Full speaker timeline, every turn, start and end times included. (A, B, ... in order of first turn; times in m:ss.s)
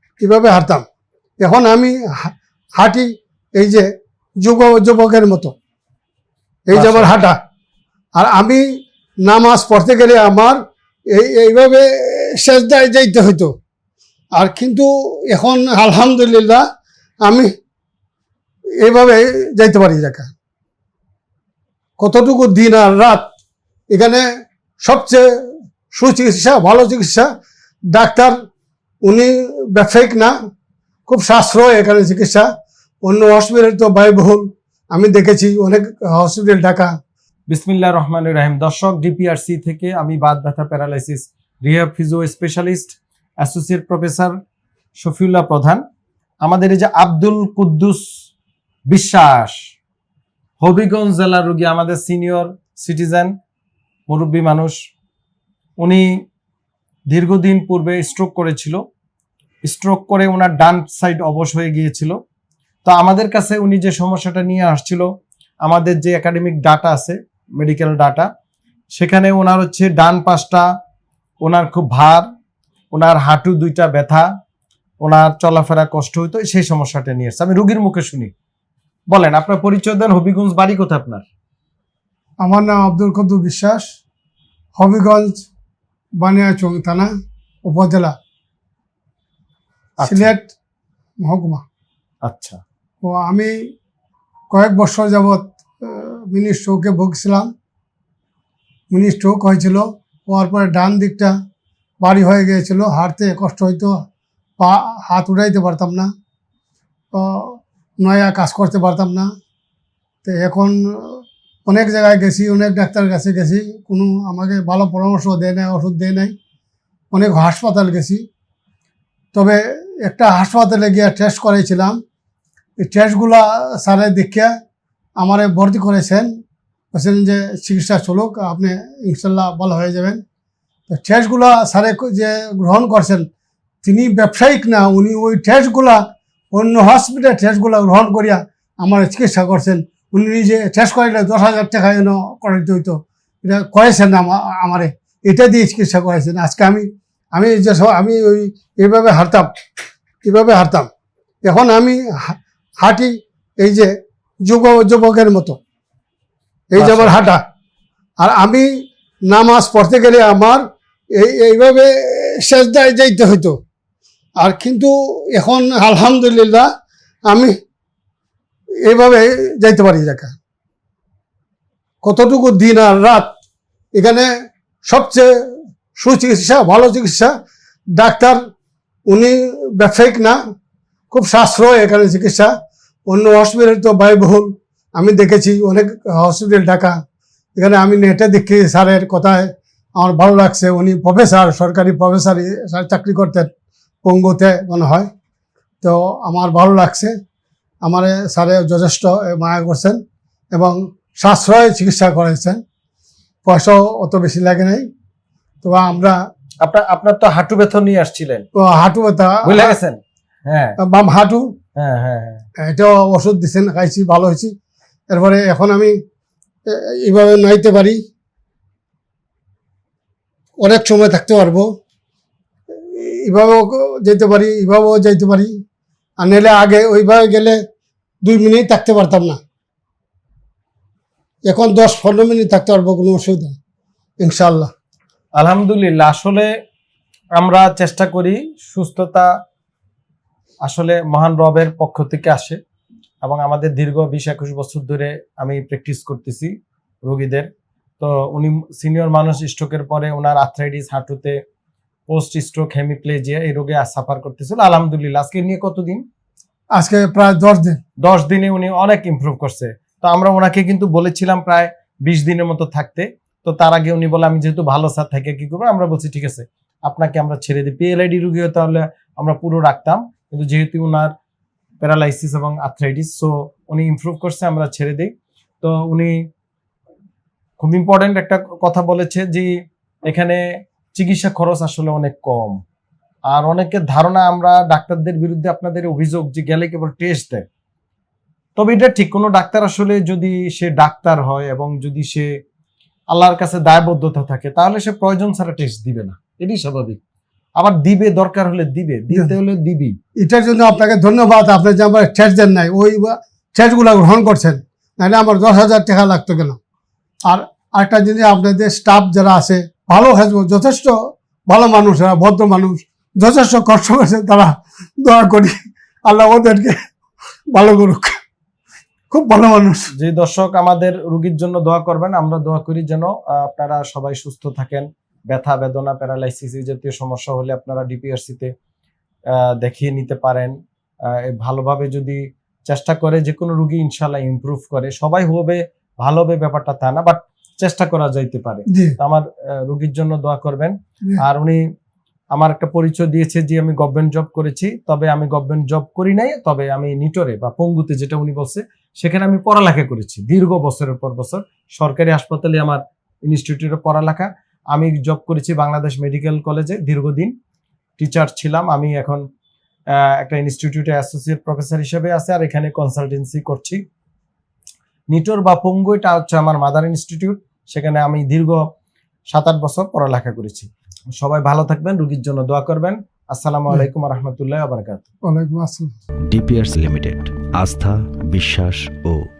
0:00.2-0:00.8 A
0:01.4-0:03.9 A
0:04.4-0:05.5 A
0:06.7-0:07.4 A
0:06.7-0:07.2 B
0:08.2-0:08.6 A
0:09.2-0:10.6 A
0:11.1-0:13.5 A
0:14.3-0:16.6 A
0:17.2-0:17.5 A
0:18.8-0:20.3 A
0:22.0-0:23.3 A
0:23.9-0:24.2 A
0:24.8-0:25.2 A
0:25.9-0:27.3 A
0:27.9-0:28.3 A
0:29.0-0:30.3 A
0:31.1-0:32.5 A
0:33.0-0:36.9 A
0:37.5-0:44.3 B
0:45.0-0:45.8 B
0:46.4-0:48.0 B
0:48.9-0:49.6 B
0:50.6-0:53.3 B
0:54.1-0:54.7 B
0:55.8-0:56.0 B
0:57.1-0:58.8 B
0:59.6-1:02.2 B
1:02.8-1:05.1 B
1:05.6-1:08.3 B
1:08.9-1:10.6 B
1:11.4-1:12.2 B
1:12.9-1:14.2 B
1:15.0-1:18.3 B
1:19.1-1:21.2 B
1:22.4-1:23.9 A
1:24.8-1:25.4 A
1:26.2-1:27.1 A
1:27.6-1:28.1 A
1:30.0-1:30.3 B
1:30.0-1:30.5 A
1:31.2-1:31.6 A
1:32.2-1:32.6 B
1:33.0-1:33.5 A
1:34.5-1:37.5 A
1:38.9-1:41.3 A
1:42.0-1:43.9 A
1:44.6-1:46.1 A
1:47.1-1:49.3 A
1:50.2-1:56.3 A
1:57.1-1:58.2 A
1:59.3-2:02.0 A
2:02.8-2:04.5 A
2:05.2-2:06.3 A
2:06.9-2:10.2 A
2:10.9-2:13.2 A
2:13.8-2:29.5 A
2:30.2-2:30.9 A
2:31.4-2:33.9 A
2:34.4-2:35.6 A
2:36.7-2:37.4 A
2:36.8-2:37.2 B
2:38.2-2:38.7 A
2:39.3-2:40.6 A
2:41.1-2:43.6 A
2:44.4-2:46.7 A
2:47.3-2:47.5 A
2:48.8-2:50.3 A
2:52.0-2:53.3 A
2:53.9-2:54.3 A
2:54.9-2:55.3 A
2:55.9-2:57.3 A
2:58.0-2:58.4 A
2:59.1-3:00.4 A
3:01.1-3:02.5 A
3:03.1-3:06.9 A
3:07.6-3:13.5 A
3:14.0-3:15.1 A
3:15.8-3:17.1 A
3:17.8-3:20.0 A
3:20.5-3:22.6 A
3:23.4-3:24.9 A
3:25.6-3:26.2 A
3:26.6-3:28.5 B
3:28.6-3:29.7 A
3:29.4-3:30.8 B
3:30.8-3:31.5 A
3:31.8-3:32.4 B
3:32.6-3:34.5 A
3:35.1-3:36.0 A
3:36.7-3:38.0 A
3:40.6-3:41.7 A
3:42.9-3:45.6 A
3:46.2-3:47.6 A
3:48.2-3:49.4 A
3:51.5-3:53.6 A
3:54.2-3:54.7 A
3:55.4-3:56.5 B
3:57.4-3:59.3 B
4:00.6-4:02.6 B
4:03.2-4:06.5 B
4:07.0-4:07.5 B
4:08.0-4:11.4 B
4:12.1-4:16.0 B
4:16.7-4:17.8 A
4:18.0-4:31.1 B
4:31.8-4:35.1 B
4:35.6-4:36.1 B
4:37.6-4:39.5 B
4:40.1-4:40.4 B
4:41.0-4:42.6 B
4:43.3-4:47.4 B
4:48.6-4:52.3 B
4:53.1-4:57.0 B
4:57.6-5:00.0 B
5:00.2-5:06.6 A
5:07.2-5:10.9 A
5:11.5-5:15.5 A
5:16.0-5:16.8 A
5:17.5-5:18.2 A
5:19.1-5:19.9 A
5:20.0-5:28.5 B
5:29.3-5:30.5 B
5:31.1-5:41.6 B
5:38.7-5:39.0 A
5:42.3-5:57.3 B
5:58.0-5:59.2 B
6:00.0-6:03.8 B
6:05.1-6:08.6 B
6:09.3-6:15.0 B
6:15.2-6:15.9 A
6:16.3-6:19.2 C